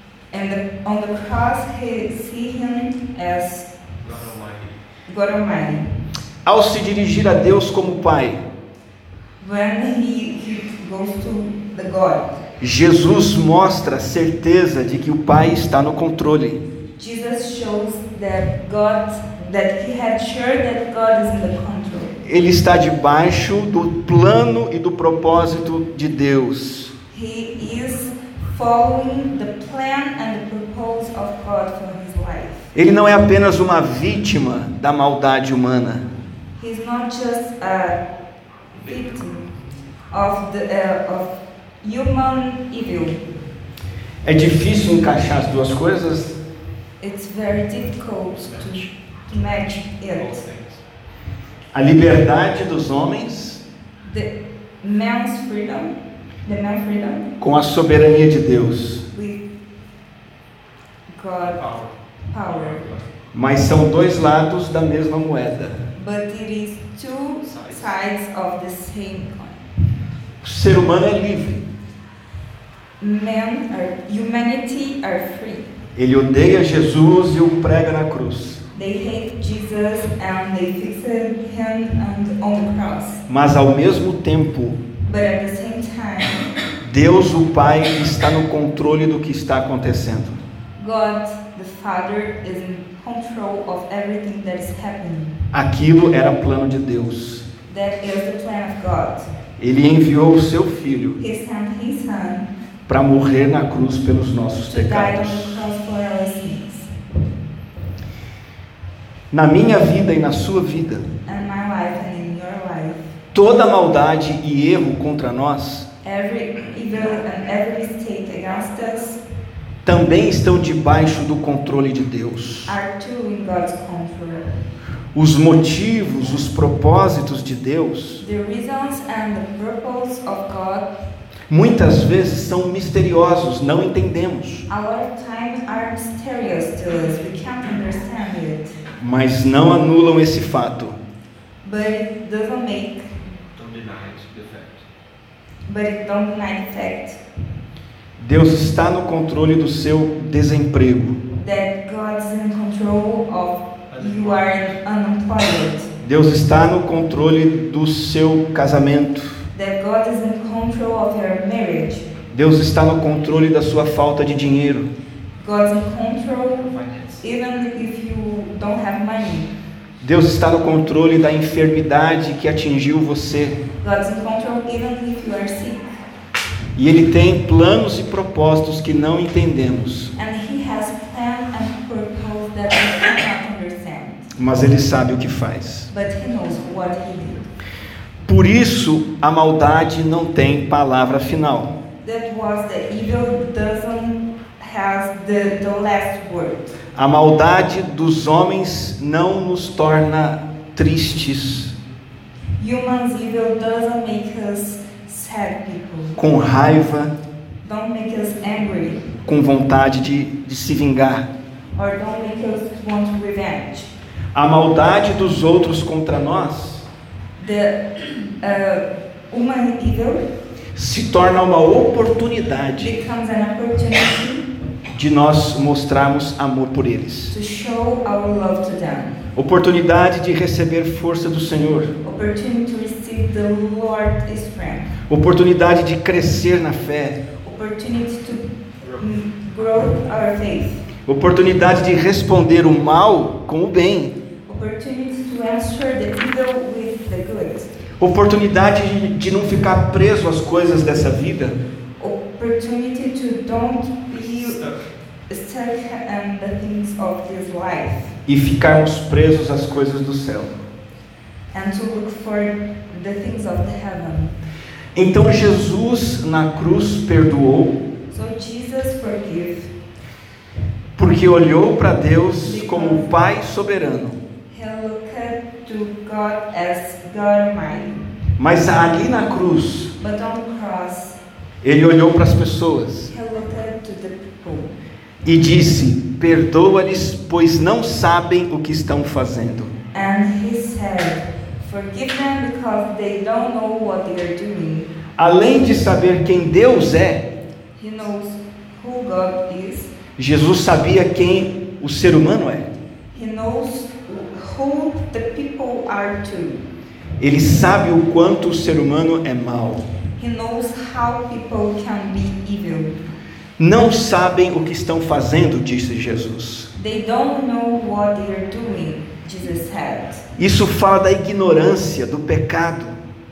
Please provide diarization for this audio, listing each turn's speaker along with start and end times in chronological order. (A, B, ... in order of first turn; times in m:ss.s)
0:00.3-0:03.7 A
0:04.0-0:04.8 B
0:05.1-0:05.9 A
0:06.4-0:08.4 C
0:09.4-0:12.3 A
0:12.6-0:16.6 C
0:17.0-0:22.2 A
0:22.2-0:26.9 C
0:27.1-0:32.7 A
0:32.7-0:36.0 C
0:36.6-0:38.0 A
0:38.8-0:39.3 B
0:38.8-0:39.4 A
0:40.1-0:43.2 A
0:44.2-0:46.4 C
0:47.0-0:50.4 A
0:48.4-0:50.8 B
0:51.7-0:53.6 C
0:54.0-0:57.3 A
0:57.4-0:59.0 C
0:59.1-0:59.4 A
1:01.1-1:01.6 A
1:01.4-1:03.0 B
1:02.3-1:02.9 A
1:03.3-1:05.9 C
1:05.9-1:09.6 A
1:07.4-1:07.9 B
1:10.4-1:11.6 C
1:13.0-1:15.7 A
1:16.0-1:18.6 C
1:18.7-1:23.2 A
1:23.3-1:24.8 C
1:25.0-1:26.5 A
1:26.8-1:30.4 C
1:30.8-1:35.4 A
1:35.5-1:37.4 C
1:37.7-1:39.3 A
1:39.6-1:41.2 C
1:41.2-1:42.5 A
1:42.9-1:45.6 C
1:44.7-1:46.9 A
1:49.3-1:51.1 C
1:51.2-1:53.1 A
1:53.3-1:55.9 C
1:56.0-1:59.2 A
1:59.8-2:02.8 C
2:02.7-2:04.5 A
2:05.1-2:08.2 C
2:08.2-2:10.9 A
2:11.5-2:14.6 C
2:14.7-2:18.8 A
2:19.0-2:21.0 C
2:21.6-2:23.1 A
2:23.5-2:24.8 B
2:25.6-2:27.2 A
2:28.2-2:31.2 C
2:31.4-2:35.9 A
2:33.9-2:34.8 B
2:36.0-2:39.4 C
2:39.5-2:42.1 A
2:42.3-2:44.9 C
2:45.4-2:49.5 A
2:46.6-2:47.2 B
2:50.0-2:53.6 C
2:53.8-2:55.9 A
2:56.8-3:00.1 C
3:00.2-3:04.3 A
3:04.4-3:05.9 C
3:05.9-3:07.4 A
3:08.2-3:11.7 C
3:12.0-3:16.7 A
3:16.9-3:21.7 C
3:22.6-3:26.2 A
3:26.2-3:27.1 C
3:27.6-3:29.1 A
3:29.2-3:31.3 C
3:31.8-3:33.9 A
3:34.4-3:36.9 C
3:37.4-3:40.2 A
3:40.8-3:42.9 C
3:42.8-3:44.4 A
3:44.9-3:47.3 C
3:47.3-3:49.2 A
3:49.3-3:51.9 C
3:52.0-3:55.0 A
3:55.1-3:57.2 C
3:57.4-4:00.9 A
4:01.0-4:04.2 C
4:04.5-4:07.7 A
4:08.0-4:11.6 C
4:12.0-4:14.6 A
4:14.1-4:14.8 B
4:15.3-4:18.1 A
4:18.3-4:20.6 C
4:21.5-4:24.4 A
4:24.9-4:27.8 C
4:28.1-4:29.7 A
4:31.0-4:34.2 C
4:32.4-4:33.1 A
4:34.5-4:38.0 A
4:38.4-4:39.9 C
4:40.0-4:41.2 A
4:41.6-4:43.1 C
4:43.1-4:44.7 A
4:45.2-4:49.7 C
4:49.9-4:54.9 A
4:55.2-4:57.2 C
4:57.8-4:59.9 A
5:00.2-5:02.7 C
5:03.1-5:06.6 A
5:07.2-5:09.8 C
5:10.2-5:13.0 A
5:13.6-5:16.7 C
5:16.7-5:20.2 A
5:20.4-5:23.0 C